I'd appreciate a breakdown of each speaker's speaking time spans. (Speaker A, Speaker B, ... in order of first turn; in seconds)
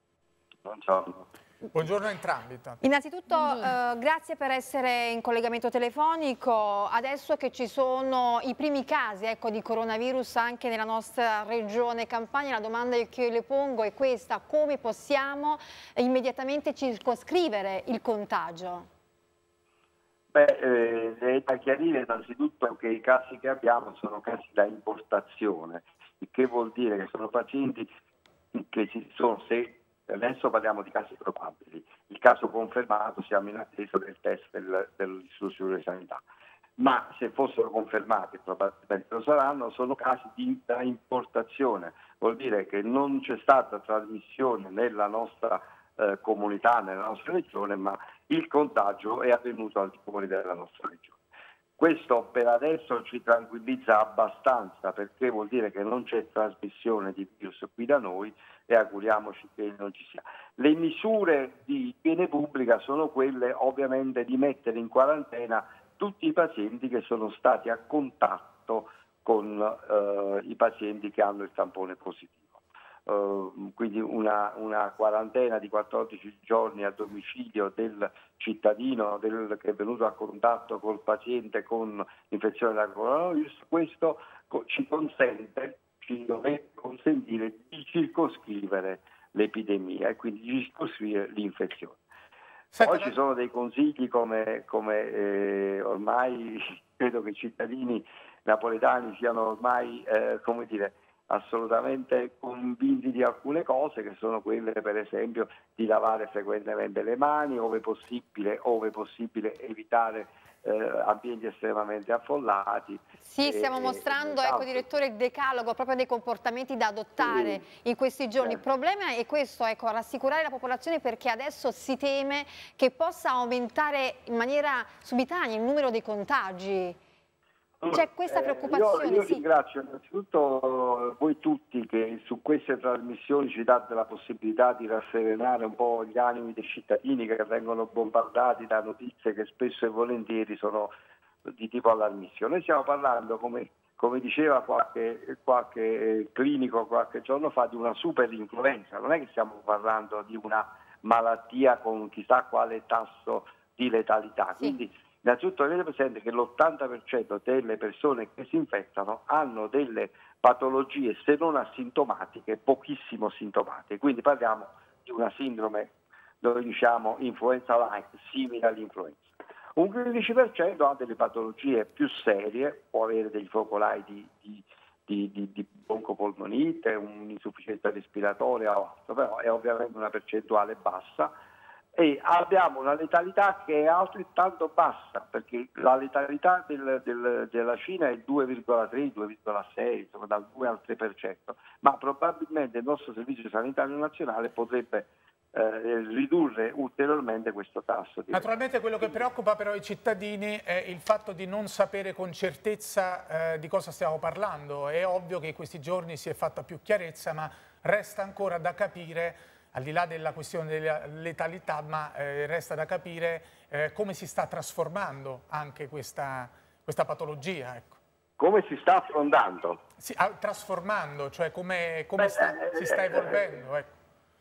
Speaker A: 0.6-1.3, 20.3-27.9, 28.5-36.2, 36.8-51.2, 51.8-72.5, 73.1-92.0, 92.8-114.9, 117.2-117.6, 127.8-140.9, 141.4-181.3, 181.9-198.5, 218.4-219.8, 222.2-223.6
Speaker B: 1.7-2.8, 92.7-93.2, 198.3-218.0, 220.0-223.9
Speaker C: 2.8-18.9, 113.2-127.0, 127.9-129.4